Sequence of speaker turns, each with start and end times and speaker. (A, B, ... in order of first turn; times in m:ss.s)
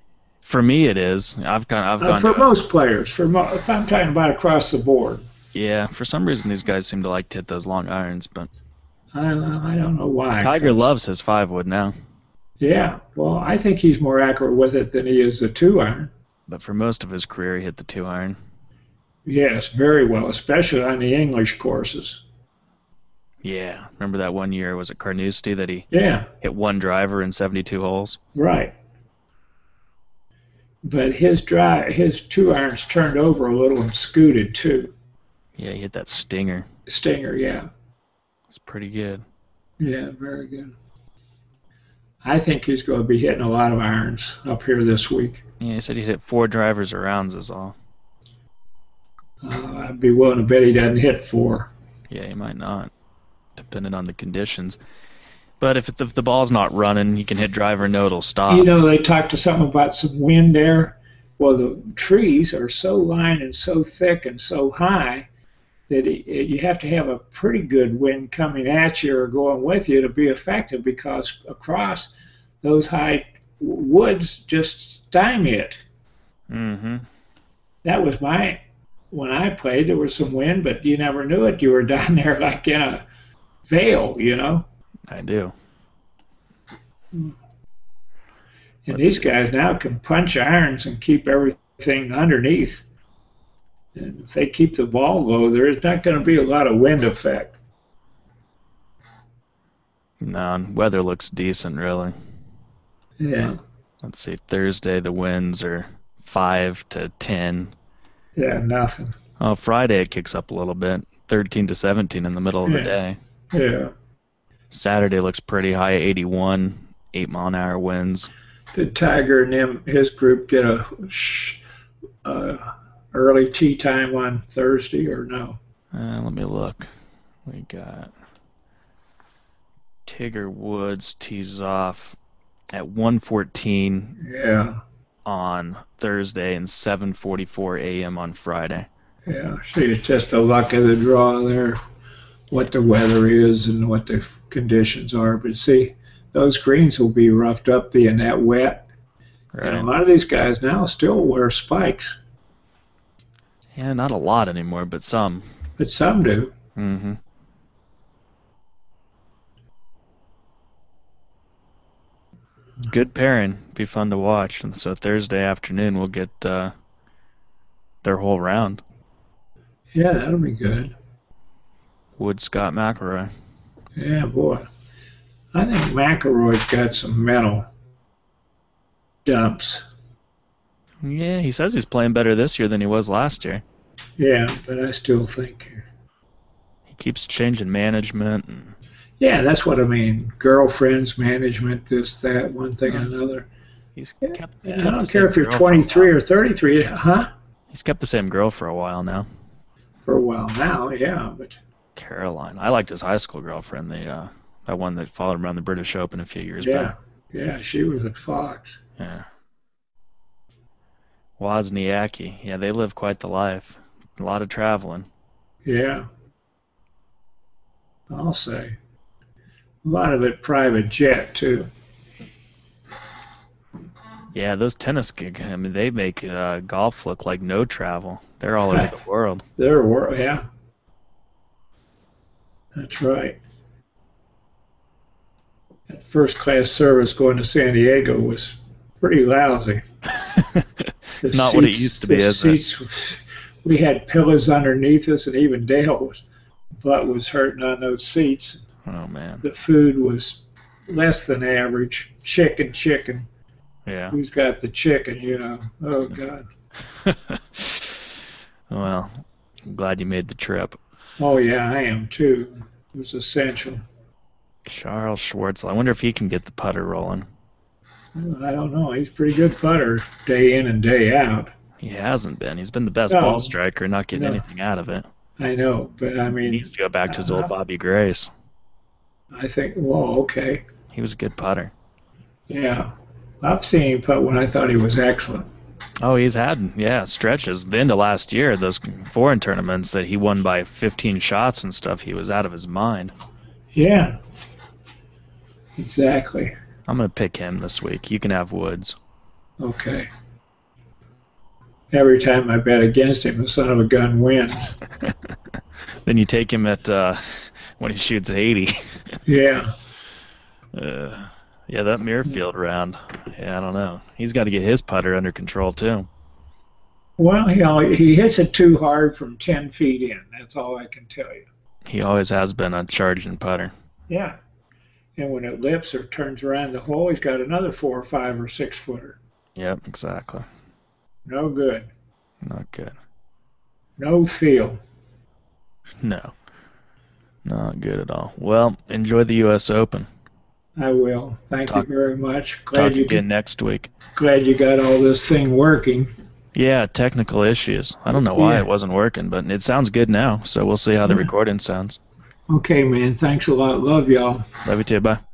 0:00.4-0:02.5 A
0:02.0-0:05.2 B
0:05.5-0:08.5 A
0:09.1-0:10.9 B
0:10.4-0:11.9 A
0:12.6-0:16.1 B
0:16.5-0:18.4 A
0:19.2-0:22.2 B
0:23.4-0:25.9 A
0:25.9-0:26.3 B
0:26.4-0:28.2 A
0:28.3-0:28.7 B
0:30.8-0:34.9 B
0:35.6-0:36.7 A
0:36.9-0:37.7 B
0:38.5-0:39.2 A
0:39.8-0:40.7 B
0:42.2-0:45.4 B
0:45.6-0:47.8 A
0:49.4-0:51.7 B
0:52.1-0:52.9 A
0:53.6-0:54.8 A
0:55.6-0:58.7 A
0:58.5-1:05.3 B
1:05.9-1:15.8 B
1:16.5-1:17.0 A
1:17.8-1:18.6 B
1:19.1-1:23.0 B
1:23.7-1:24.6 B
1:25.1-1:25.5 A
1:28.8-1:32.8 B
1:28.9-1:29.3 A
1:33.9-1:37.5 B
1:40.2-1:42.1 A
1:43.2-1:43.6 B
1:44.0-1:47.7 A
1:48.4-1:49.2 B
1:49.4-1:53.2 A
1:52.6-1:52.9 B
1:53.5-1:53.9 B
1:54.7-1:58.3 A
1:58.7-2:01.6 B
2:02.2-2:05.6 B
2:05.9-2:06.9 A
2:07.4-2:08.1 A
2:10.0-2:12.2 A
2:12.7-2:14.2 A
2:14.2-2:14.8 B
2:15.2-2:18.9 A
2:19.2-2:21.8 B
2:22.5-2:28.8 B
2:29.5-2:29.9 A
2:29.6-2:32.2 B
2:33.8-2:35.4 A
2:35.8-2:36.5 B
2:36.8-2:37.2 A
2:42.8-2:46.7 A
2:48.0-2:48.8 A
2:49.9-2:50.9 B
2:52.2-2:53.3 A
2:54.0-2:54.7 B
2:55.5-2:57.7 B
2:59.2-2:59.8 B
3:01.0-3:03.6 A
3:04.2-3:05.8 B
3:06.9-3:08.7 A
3:09.2-3:13.5 B
3:12.9-3:13.2 A
3:14.0-3:16.1 A
3:14.2-3:17.3 B
3:17.7-3:19.3 A
3:20.0-3:21.6 B
3:22.0-3:26.9 A
3:26.6-3:28.8 B
3:29.0-3:29.2 A
3:31.4-3:35.1 A
3:35.6-3:36.0 B
3:38.1-3:38.8 B
3:39.8-3:41.7 B
3:44.3-3:49.4 A
3:48.7-3:49.0 B
3:49.6-3:50.4 B
3:52.7-3:53.4 B
3:55.9-3:59.8 B
4:00.2-4:00.6 A
4:01.2-4:06.2 B
4:01.2-4:02.6 A
4:06.8-4:08.6 B
4:08.8-4:09.4 A
4:09.4-4:13.3 B
4:13.8-4:14.2 A
4:14.1-4:16.5 B
4:17.0-4:17.9 A
4:18.7-4:20.8 A
4:21.2-4:23.8 B
4:24.6-4:27.2 A
4:28.1-4:31.5 B
4:31.8-4:35.1 A
4:33.1-4:33.5 B
4:34.1-4:34.4 B
4:35.4-4:37.5 B
4:36.4-4:38.3 A
4:39.3-4:40.6 B
4:40.9-4:41.7 A
4:42.5-4:45.4 B
4:46.0-4:53.1 A
4:53.7-4:54.2 B
4:55.8-4:56.5 B
4:56.9-4:59.0 A
4:59.6-5:00.1 B
5:01.9-5:04.8 B
5:06.0-5:07.2 A
5:07.8-5:08.8 A
5:09.2-5:09.7 B
5:10.7-5:16.1 A
5:17.2-5:21.4 B
5:21.8-5:23.7 A
5:24.1-5:24.4 B
5:25.2-5:29.2 B
5:29.6-5:30.4 A
5:31.2-5:31.9 B
5:32.4-5:32.9 A
5:34.0-5:34.8 B
5:36.0-5:36.3 A
5:37.4-5:40.1 A
5:40.8-5:43.2 B
5:42.7-5:43.9 A
5:44.1-5:46.1 B
5:46.5-5:52.0 A
5:48.1-5:48.7 B
5:52.5-5:54.5 B
5:54.6-5:55.2 A